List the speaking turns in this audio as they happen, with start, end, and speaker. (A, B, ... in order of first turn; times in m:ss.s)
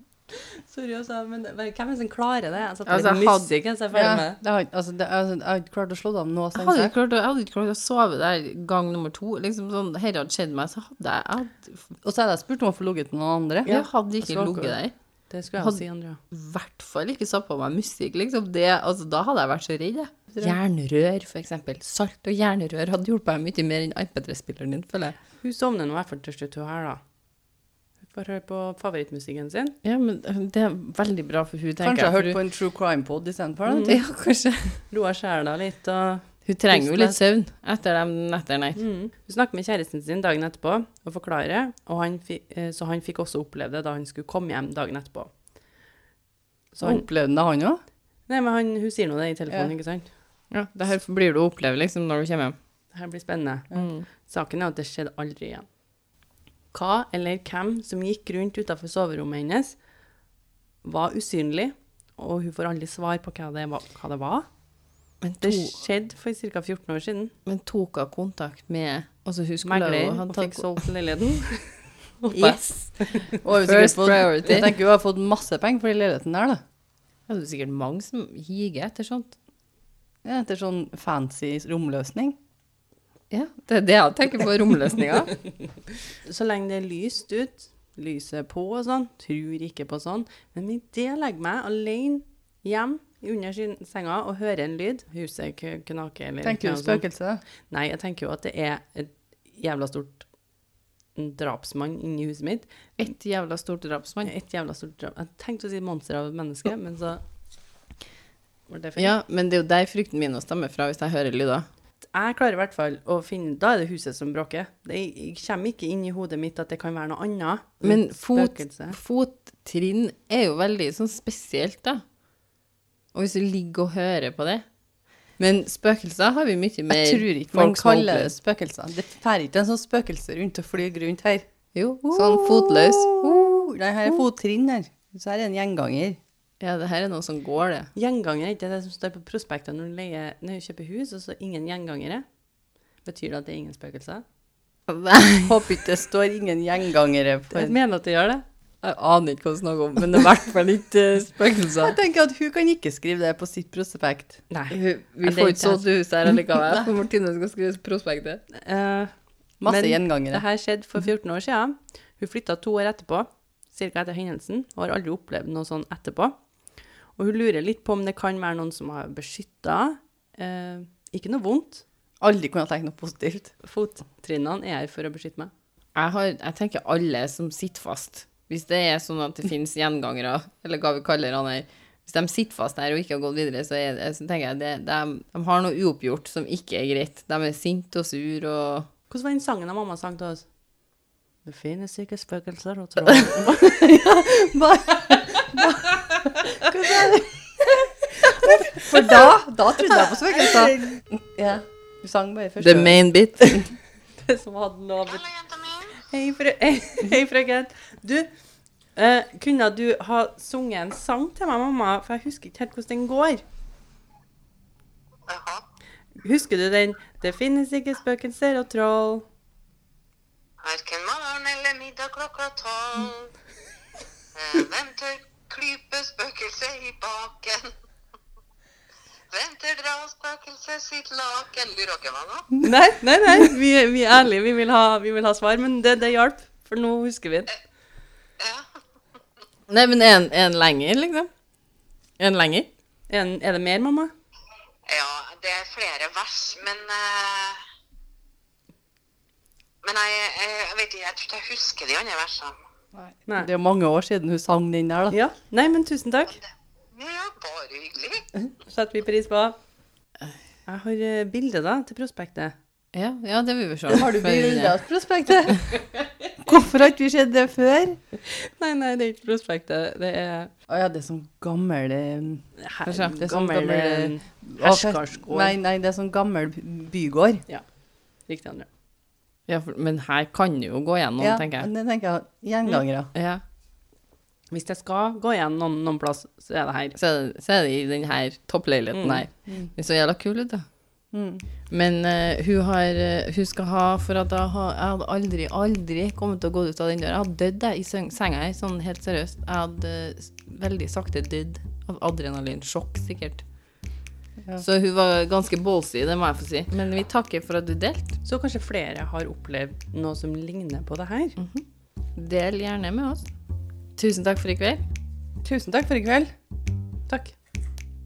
0:00.3-0:04.4 A
0:02.9-0:03.5 B
0:03.9-0:07.0 C
0:06.5-0:11.8 B
0:12.0-0:13.7 C
0:13.6-0:16.2 A
0:13.7-0:14.9 B
0:15.6-0:25.2 B
0:20.3-0:20.6 C
0:25.4-0:27.0 A
0:28.1-0:29.7 A
0:29.8-0:32.4 B
0:31.8-0:33.9 C
0:33.7-0:34.0 A
0:33.8-0:34.8 B
0:34.9-0:37.1 A
0:36.4-0:38.8 B
0:36.7-0:37.1 C
0:38.8-0:45.3 A
0:46.7-0:47.1 A
0:46.8-0:47.8 C
0:48.3-0:50.1 A
0:50.5-0:52.6 B
0:52.9-0:53.7 A
0:53.7-0:54.1 B
0:54.2-0:55.6 A
0:56.7-0:59.8 A
1:00.8-1:04.5 A
1:05.2-1:05.8 B
1:05.4-1:07.3 A
1:07.5-1:10.8 B
1:09.6-1:13.3 A
1:12.3-1:14.7 B
1:13.4-1:16.6 C
1:17.3-1:19.4 B
1:20.2-1:22.4 C
1:23.3-1:25.3 B
1:26.2-1:37.0 A
1:36.4-1:37.4 C
1:37.7-1:40.2 A
1:41.2-1:42.9 A
1:43.0-1:44.3 B
1:44.2-1:47.2 A
1:48.7-1:49.1 A
1:49.0-1:51.6 B
1:52.0-1:59.0 A
1:57.8-2:02.0 B
2:03.1-2:04.6 B
2:05.4-2:08.3 B
2:06.9-2:11.4 C
2:11.7-2:13.6 B
2:12.1-2:16.2 C
2:16.6-2:17.9 B
2:18.0-2:22.2 A
2:23.0-2:24.2 A
2:24.9-2:25.7 B
2:25.4-2:27.8 C
2:27.5-2:28.4 A
2:28.8-2:32.0 B
2:31.8-2:34.4 C
2:34.5-2:36.4 A
2:34.7-2:38.4 B
2:38.6-2:39.1 A
2:39.6-2:40.4 C
2:39.6-2:46.4 A
2:47.2-2:51.8 A
2:52.2-2:53.5 C
2:53.6-2:55.5 A
2:56.0-3:08.9 B
3:09.1-3:10.4 A
3:11.5-3:13.8 A
3:13.4-3:17.3 C
3:16.7-3:17.2 A
3:18.2-3:23.0 C
3:18.6-3:19.4 A
3:19.9-3:20.8 A
3:22.6-3:23.7 B
3:24.2-3:28.3 A
3:29.0-3:33.4 A
3:35.3-3:35.6 D
3:36.2-3:39.2 A
3:40.6-3:43.3 D
3:44.4-3:47.7 D
3:49.3-3:52.5 D
3:52.6-3:57.6 A
3:58.4-3:58.6 D
3:59.7-4:01.3 B
4:02.2-4:02.7 B
4:03.1-4:04.1 A
4:04.8-4:07.6 D
4:09.8-4:12.6 D
4:13.0-4:15.2 C
4:15.1-4:16.4 A
4:16.9-4:18.3 D
4:18.7-4:19.6 A
4:20.7-4:22.5 A
4:22.9-4:24.8 B
4:23.9-4:25.8 C
4:26.4-4:28.0 C
4:28.2-4:30.5 A
4:30.7-4:32.4 C
4:32.6-4:35.5 A
4:32.8-4:33.2 B
4:33.2-4:37.4 C
4:38.3-4:38.7 A
4:39.5-4:41.7 B
4:41.2-4:43.1 C
4:43.1-4:43.4 B
4:44.5-4:47.0 A
4:47.0-4:50.6 B
4:48.9-4:49.2 A
4:51.1-4:51.4 C
4:51.7-5:03.4 B
5:04.6-5:08.2 B
5:08.2-5:11.4 A
5:11.4-5:11.6 B
5:12.2-5:13.3 B
5:14.0-5:14.8 B
5:15.4-5:16.3 C
5:17.1-5:17.3 A